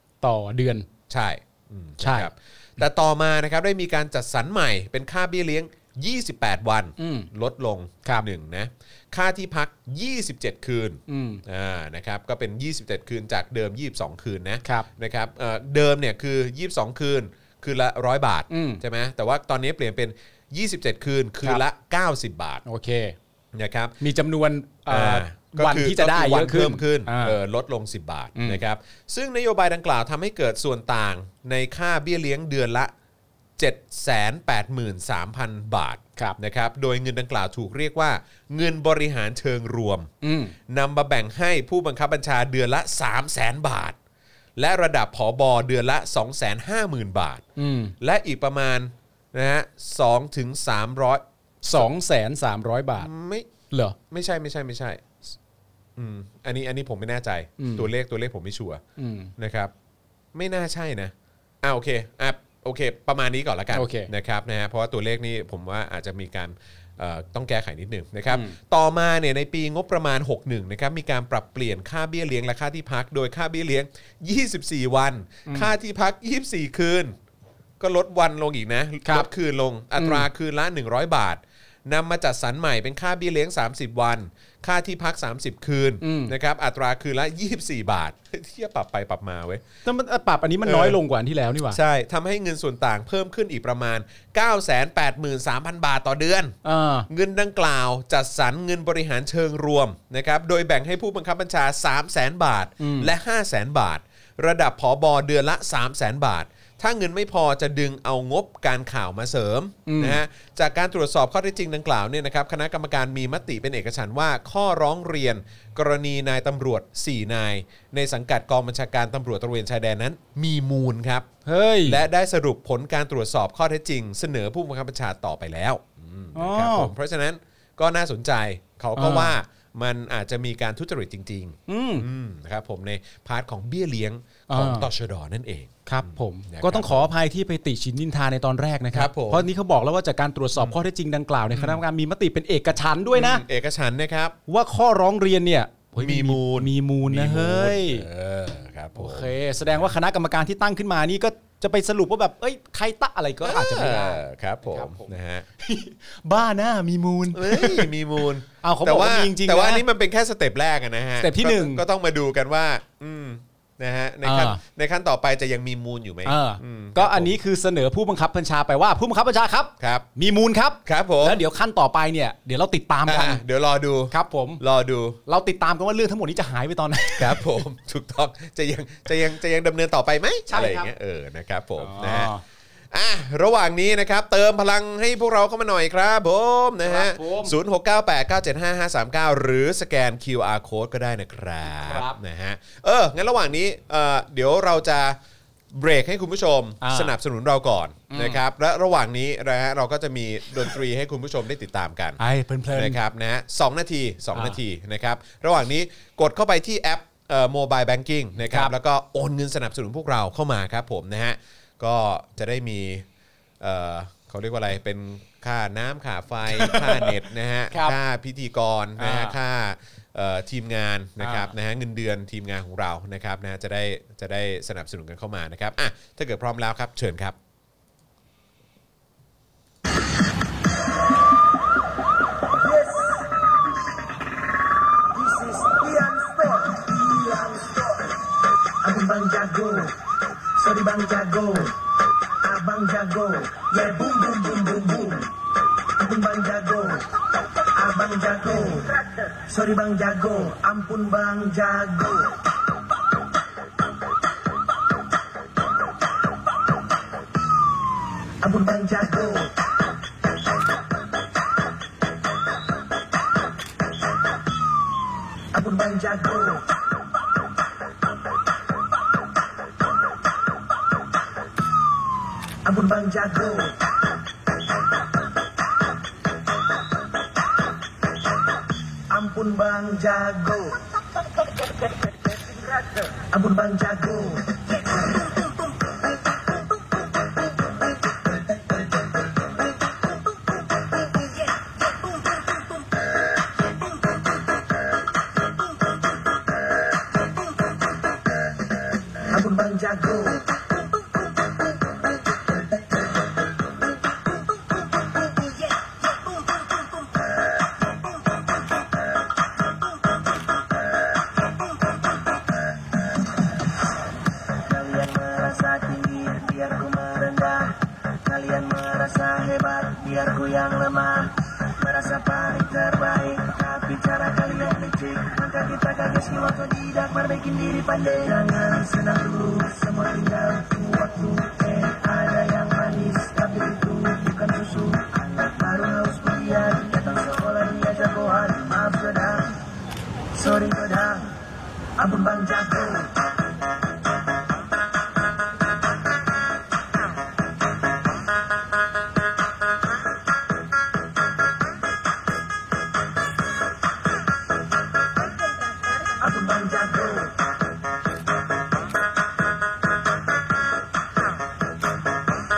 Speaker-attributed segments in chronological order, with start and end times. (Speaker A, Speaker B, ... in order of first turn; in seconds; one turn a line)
Speaker A: 0.2-0.9
Speaker B: 1.1-22.6
Speaker A: 2.0-2.3
Speaker A: 7.0-7.3
Speaker A: 11.1-11.4
Speaker A: 18.5-18.8
Speaker A: 22.6-23.2
Speaker B: 23.5-23.9
Speaker A: 24.0-27.4
Speaker B: 24.9-32.9
Speaker A: 28.4-28.6
Speaker B: 33.6-40.1
Speaker A: 40.2-40.5
Speaker B: 40.7-44.0
Speaker B: 44.6-47.4
Speaker A: 47.6-47.9
Speaker B: 48.0-51.2
Speaker A: 51.6-53.1
Speaker B: 53.0-53.5
Speaker A: 53.7-54.0
Speaker B: 54.0-55.2
Speaker B: 56.0-58.8
Speaker A: 57.6-57.9
Speaker A: 59.0-59.3
Speaker B: 59.4-59.7
Speaker B: 60.3-77.2
Speaker A: 63.7-64.1
Speaker A: 68.3-68.6
Speaker A: 75.5-75.7
Speaker B: 77.8-89.6
Speaker A: 80.0-80.3
Speaker A: 86.0-86.3
Speaker A: 89.8-91.8
Speaker B: 90.6-91.0
Speaker B: 91.7-96.6
Speaker A: 96.6-97.1
Speaker B: 97.1-121.3
Speaker A: 102.8-103.1
Speaker A: 109.9-110.2
Speaker A: 121.5-122.0
Speaker B: 121.8-137.1
Speaker A: 126.3-126.9
Speaker A: 129.0-129.3
Speaker A: 131.7-132.1
Speaker A: 134.5-134.9
Speaker A: 135.9-143.4
Speaker B: 138.9-139.5
Speaker B: 141.5-141.8
Speaker B: 143.1-144.4
Speaker A: 144.5-148.1
Speaker B: 146.0-149.9
Speaker A: 148.9-157.9
Speaker B: 153.4-155.5
Speaker B: 157.3-167.4
Speaker A: 158.6-159.8
Speaker A: 161.2-161.8
Speaker A: 164.2-164.6
Speaker A: 166.2-173.4
Speaker B: 169.8-170.1
Speaker B: 170.9-171.4
Speaker B: 173.1-175.2
Speaker A: 174.1-174.6
Speaker A: 175.3-177.5
Speaker B: 177.2-182.3
Speaker A: 180.5-180.9
Speaker A: 181.8-182.4
Speaker B: 182.9-195.2
Speaker A: 186.8-187.5
Speaker A: 191.8-192.2
Speaker B: 195.7-202.2
Speaker A: 196.8-197.2
Speaker A: 198.1-198.4
Speaker A: 202.2-203.0
Speaker B: 202.7-213.1
Speaker A: 204.3-204.6
Speaker B: 213.6-227.4
Speaker A: 216.5-217.1
Speaker A: 217.7-218.0
Speaker A: 219.0-219.4
Speaker A: 221.2-221.5
Speaker C: 232.5-233.3
Speaker C: 235.1-238.2
Speaker C: 238.8-240.0
Speaker C: 240.6-241.8
Speaker C: 242.4-245.3
Speaker C: 246.0-247.1
Speaker C: 247.7-252.4
Speaker C: 258.4-259.6
Speaker C: 265.5-266.7
Speaker C: 272.6-273.8
Speaker C: 279.1-280.8
Speaker C: 283.0-285.3
Speaker C: 299.3-300.5
Speaker C: 314.6-339.6
Speaker C: 340.4-341.4
Speaker C: 342.0-343.2
Speaker C: 356.2-357.4